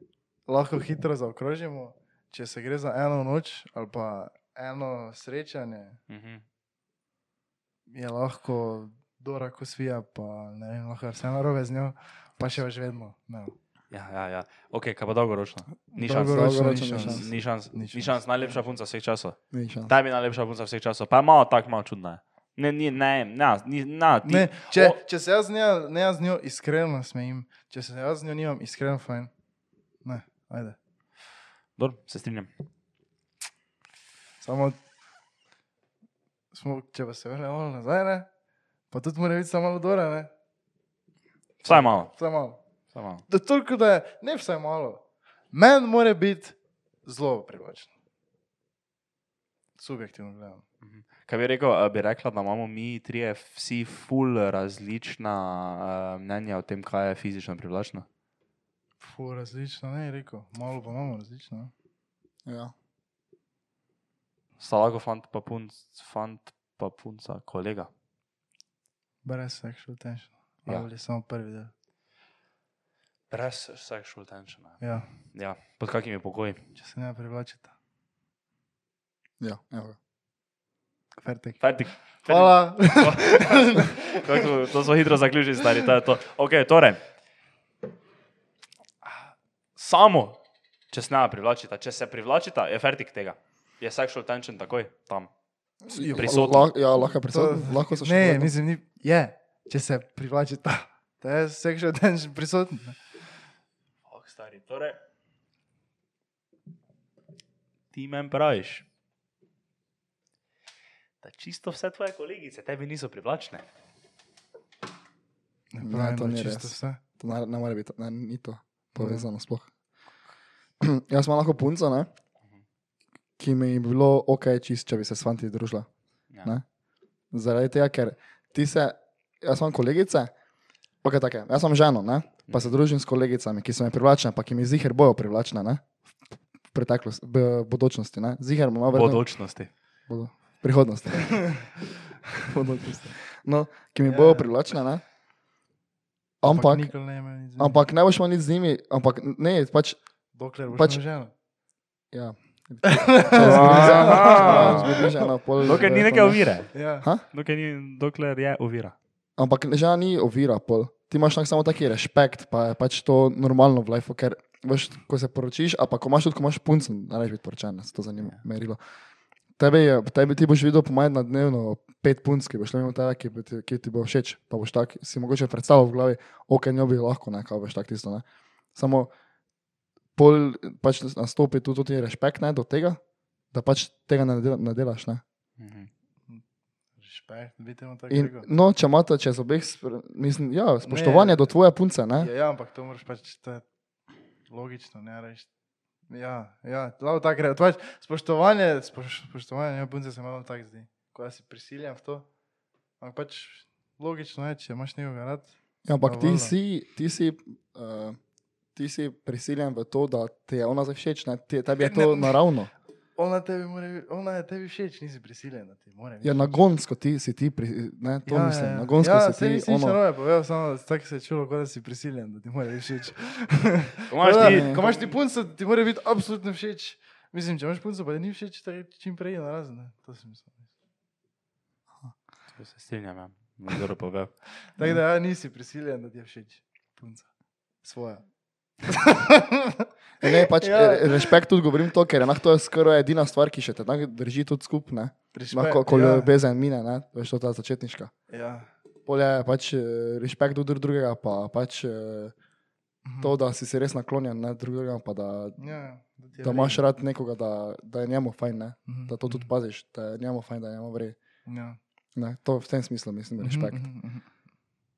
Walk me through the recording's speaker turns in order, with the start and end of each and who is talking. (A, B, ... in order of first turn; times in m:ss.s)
0:00.5-0:06.0 A
0:06.1-0:06.4 B
0:07.9-0:13.5 A
0:13.9-0:19.4 B
0:15.9-0:18.5 A
0:16.1-0:17.2 C
0:19.5-0:19.9 C
0:19.9-0:25.0 B
0:24.2-0:29.3 A
0:30.0-0:30.8 A
0:31.8-0:32.5 B
0:34.4-0:34.8 A
0:36.5-0:38.3 A
0:38.9-0:40.3 A
0:41.6-0:42.1 B
0:41.7-0:42.6 A
0:42.9-0:43.2 B
0:43.3-0:47.9 A
0:49.8-0:50.6 A
0:50.8-0:58.0 B
0:59.0-1:01.7 A
1:02.4-1:02.7 C
1:04.6-1:07.9 B
1:09.2-1:11.7 A
1:13.3-1:16.6 B
1:14.8-1:15.1 A
1:16.7-1:17.7 A
1:19.4-1:20.0 C
1:21.2-1:21.6 A
1:21.6-1:27.0 B
1:22.2-1:24.5 A
1:29.0-1:30.4 B
1:30.9-1:35.3 B
1:35.8-1:38.5 C
1:35.9-1:36.4 A
1:36.1-1:36.7 B
1:37.0-1:43.0 A
1:44.1-1:45.0 B
1:47.9-1:48.8 B
1:51.2-1:53.6 B
1:55.7-1:57.0 A
1:55.8-1:59.7 C
1:59.0-1:59.2 A
2:00.8-2:02.1 C
2:03.4-2:05.9 C
2:07.3-2:10.3 C
2:11.0-2:15.8 C
2:12.5-2:12.7 B
2:16.7-2:19.2 C
2:18.9-2:19.7 B
2:20.1-2:21.6 C
2:21.2-2:21.6 A
2:22.4-2:25.0 C
2:24.0-2:24.5 A
2:26.4-2:26.9 C
2:26.4-2:27.8 A
2:27.6-2:30.0 C
2:30.3-2:31.3 A
2:30.7-2:31.0 C
2:32.1-2:36.4 C
2:32.8-2:35.9 A
2:33.3-2:35.0 B
2:35.6-2:36.7 B
2:36.7-2:37.1 A
2:37.2-2:39.0 B
2:39.4-2:48.8 C
2:49.6-2:58.2 C
2:58.7-2:59.1 C
3:00.2-3:03.0 C
3:03.5-3:05.2 C
3:05.6-3:05.9 B
3:07.0-3:08.5 A
3:08.1-3:12.3 C
3:10.9-3:11.4 A
3:12.2-3:13.6 A
3:14.5-3:15.5 A
3:16.1-3:22.2 A
3:23.0-3:26.5 A
3:25.8-3:28.2 C
3:28.7-3:32.7 C
3:31.8-3:32.4 A
3:33.2-3:36.6 A
3:36.2-3:40.0 C
3:38.2-3:50.6 A
3:44.1-3:45.0 B
3:44.3-3:44.8 C
3:52.6-3:54.3 B
3:54.8-3:57.3 A
3:57.8-3:58.2 A
3:58.8-4:01.4 A
4:00.2-4:08.1 C
4:05.3-4:06.3 A
4:08.3-4:08.7 A
4:09.1-4:12.3 C
4:13.0-4:13.3 A
4:13.2-4:15.6 C
4:15.6-4:16.8 A
4:16.4-4:21.2 C
4:18.9-4:19.5 A
4:21.4-4:21.8 A
4:22.2-4:23.8 C
4:23.4-4:24.3 A